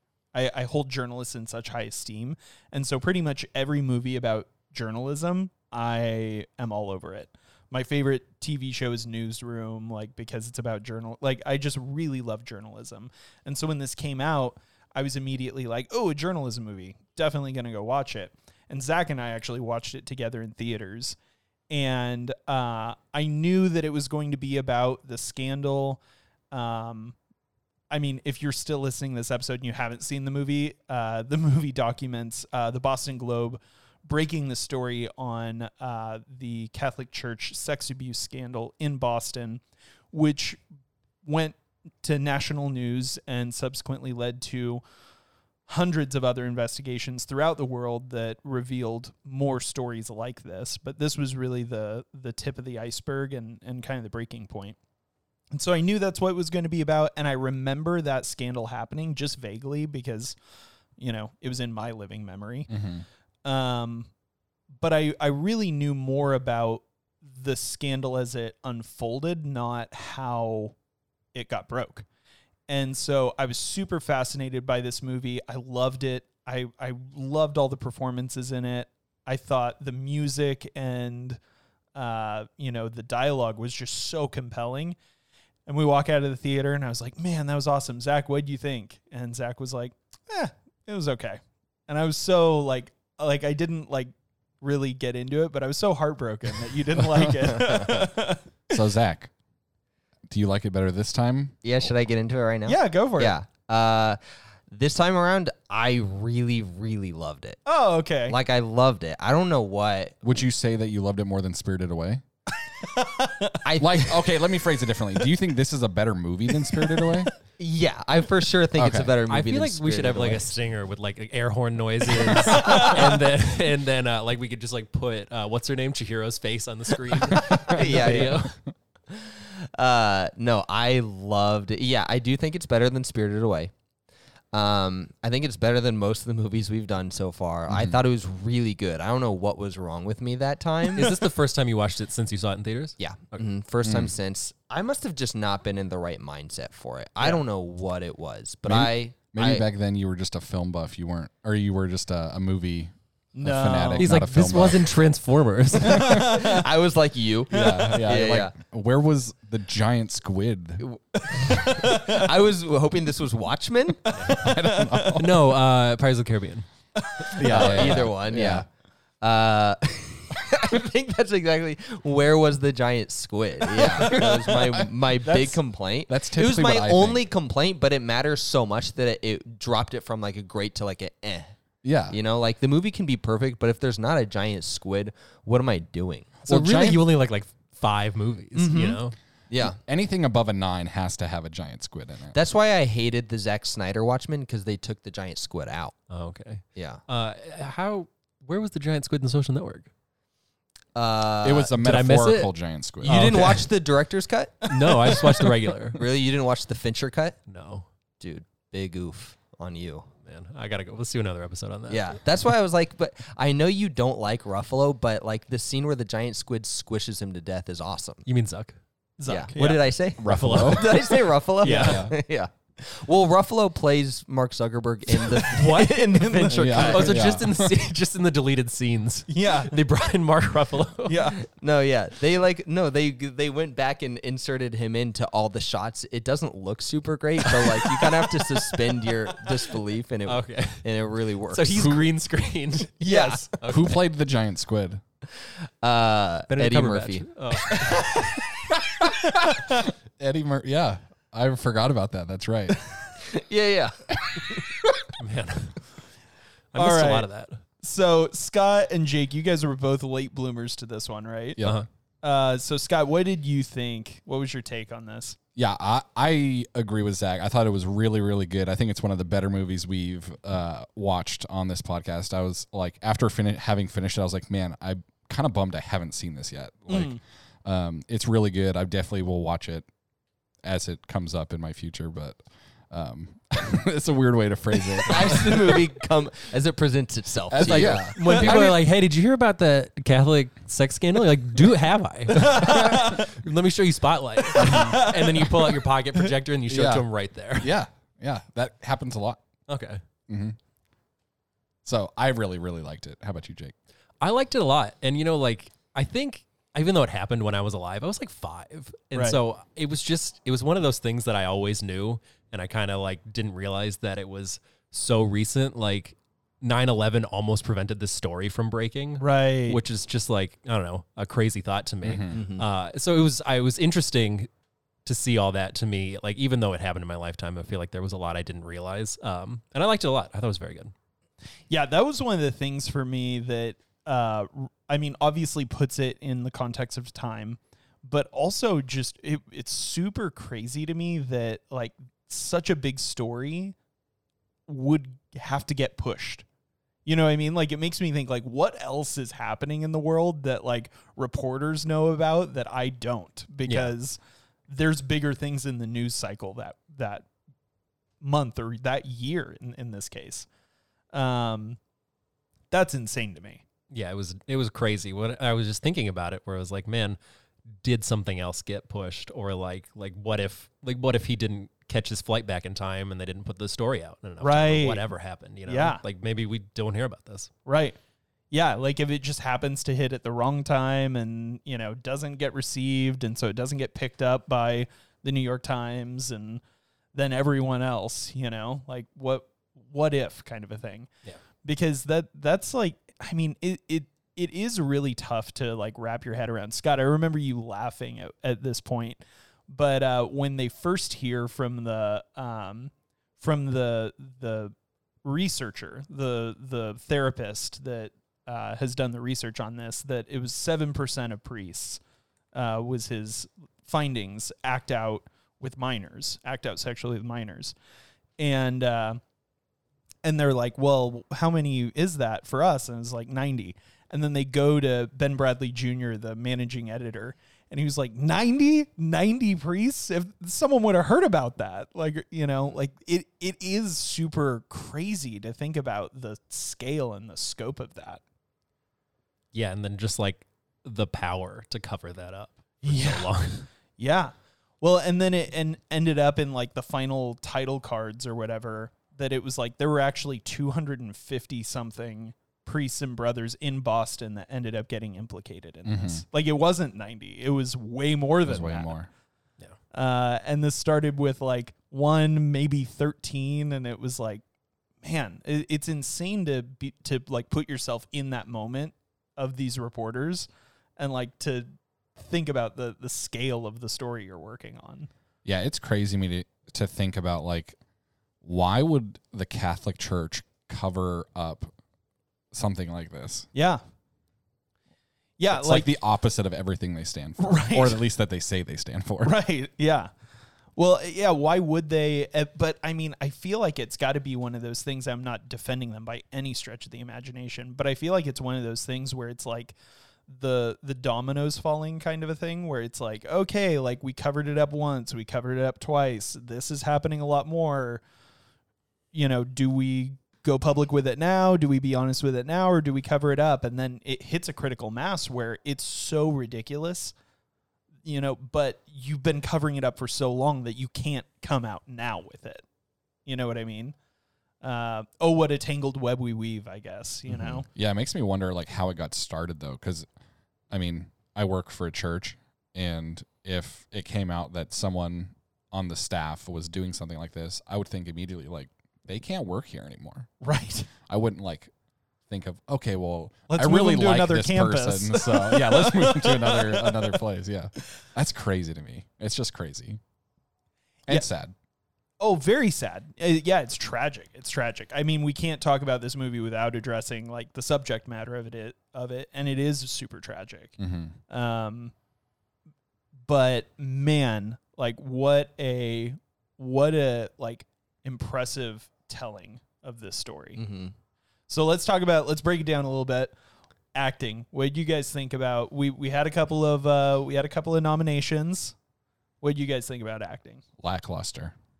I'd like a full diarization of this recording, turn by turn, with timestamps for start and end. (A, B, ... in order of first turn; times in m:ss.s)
0:00.3-0:21.2 A
0:21.7-0:26.0 A
0:26.5-0:27.2 A
0:27.9-0:40.6 A
0:41.2-0:44.8 A
0:45.7-0:54.8 A
0:55.5-1:00.4 A
1:01.0-1:02.7 A
1:02.7-1:03.0 B
1:03.4-1:04.1 A
1:04.8-1:10.8 A
1:11.3-1:12.1 A
1:12.7-1:21.4 A
1:22.0-1:25.0 A
1:25.7-1:38.8 A
1:37.5-1:38.0 C
1:38.7-1:39.3 B
1:40.3-1:41.9 B
1:41.6-1:44.2 C
1:42.7-1:43.4 A
1:44.7-1:47.6 C
1:47.7-1:48.4 A
1:48.3-1:50.2 C
1:50.2-1:52.2 B
1:52.8-1:53.6 A
1:53.6-1:54.2 C
1:53.8-1:57.3 B
1:56.7-1:57.0 A
1:57.6-2:00.5 C
1:58.8-1:59.2 B
1:59.3-2:08.6 D
2:02.5-2:03.0 A
2:07.6-2:08.4 C
2:09.1-2:13.7 C
2:14.5-2:21.2 C
2:17.7-2:18.0 B
2:20.9-2:23.4 D
2:23.0-2:29.6 C
2:23.8-2:24.1 B
2:28.7-2:35.0 B
2:33.4-2:34.1 A
2:34.0-2:36.4 D
2:35.8-2:36.4 B
2:36.0-2:36.6 A
2:36.0-2:38.5 C
2:37.5-2:40.9 B
2:40.8-2:44.1 C
2:41.4-2:42.2 A
2:44.1-2:44.4 D
2:44.2-2:45.4 B
2:44.4-2:45.2 A
2:45.2-2:46.7 D
2:47.4-2:48.7 B
2:47.4-2:48.7 C
2:47.7-2:47.9 D
2:49.2-3:01.6 C
2:53.8-2:57.2 B
3:01.8-3:02.2 B
3:02.1-3:06.4 C
3:06.4-3:09.2 D
3:06.5-3:07.0 B
3:08.6-3:09.8 C
3:09.6-3:12.4 B
3:12.3-3:16.0 C
3:16.1-3:19.9 D
3:21.0-3:21.7 C
3:21.4-3:23.4 B
3:21.7-3:23.7 D
3:23.0-3:27.4 C
3:24.7-3:26.0 D
3:27.5-3:27.9 D
3:28.2-3:30.1 C
3:30.2-3:32.2 D
3:31.9-3:38.2 C
3:38.3-3:38.8 D
3:39.2-3:39.9 A
3:39.3-3:47.4 C
3:40.2-3:41.1 B
3:40.2-3:42.1 D
3:41.6-3:42.2 B
3:45.3-3:51.3 D
3:45.5-3:46.6 A
3:46.5-3:47.8 B
3:49.3-3:49.8 A
3:51.1-3:51.4 A
3:51.5-4:02.1 C
3:57.5-3:59.1 D
4:00.3-4:00.9 D
4:01.5-4:04.0 D
4:03.0-4:03.9 C
4:03.0-4:03.4 A
4:03.7-4:05.0 B
4:05.8-4:08.2 C
4:06.5-4:08.2 D
4:09.2-4:12.9 B
4:13.2-4:14.6 C
4:15.2-4:15.8 D
4:16.7-4:17.6 D
4:16.8-4:17.3 A
4:17.8-4:21.6 A
4:21.6-4:21.9 B
4:21.6-4:21.9 D
4:22.2-4:25.4 A
4:25.6-4:39.9 B
4:36.9-4:37.2 A
4:40.6-4:45.8 B
4:45.1-4:48.7 C
4:47.5-4:48.8 B
4:47.6-4:57.7 D
4:52.3-4:53.3 A
4:52.6-4:52.9 B
4:54.4-4:56.2 A
4:54.6-4:55.0 B
4:56.7-4:57.0 B
4:57.6-4:59.4 B
4:59.7-5:00.0 D
5:00.3-5:00.6 B
5:01.8-5:03.8 B
5:04.2-5:24.5 D
5:09.1-5:09.4 A
5:19.2-5:19.8 A
5:22.0-5:22.4 B
5:22.3-5:22.7 C
5:25.0-5:30.9 D
5:31.7-5:43.8 A
5:44.7-5:46.4 A
5:47.1-5:54.2 A
5:53.7-5:53.9 D
5:54.7-5:57.3 A
5:58.2-6:00.5 A
6:01.1-6:01.8 A
6:02.7-6:03.6 A
6:03.9-6:07.2 D
6:07.8-6:17.5 D
6:14.4-6:15.0 A
6:15.7-6:16.0 A
6:17.7-6:18.0 A
6:18.5-6:26.6 A
6:27.1-6:31.1 A
6:31.6-6:52.0 A
6:52.5-6:57.8 A
6:58.4-6:59.2 A
7:00.2-7:18.2 A
7:19.5-7:23.7 D
7:22.8-7:23.3 A
7:24.0-7:39.0 A
7:35.8-7:36.2 B
7:38.4-7:39.1 B
7:39.9-7:44.4 A
7:45.0-7:50.5 A
7:51.0-7:55.1 A
7:55.4-7:57.8 B
7:58.4-8:01.7 B
8:02.5-8:03.5 B
8:03.5-8:03.8 A
8:05.4-8:05.9 A
8:05.5-8:09.4 B
8:07.4-8:08.0 A
8:09.2-8:10.1 A
8:10.8-8:19.8 A
8:20.3-8:28.0 A
8:29.1-8:37.1 A
8:38.0-8:42.6 A
8:43.3-8:44.0 A
8:44.6-8:47.7 A
8:47.3-8:47.6 C
8:47.7-8:50.1 B
8:50.7-9:00.3 B
9:00.4-9:00.9 A
9:01.1-9:01.7 B
9:02.3-9:10.0 B
9:03.5-9:07.2 A
9:11.1-9:11.5 B
9:12.2-9:20.8 A
9:20.8-9:21.2 B
9:21.3-9:21.9 A
9:23.3-9:30.6 A
9:30.6-9:30.9 C
9:31.5-9:33.3 A
9:34.0-9:38.8 A
9:39.4-9:40.6 A
9:40.8-9:41.6 B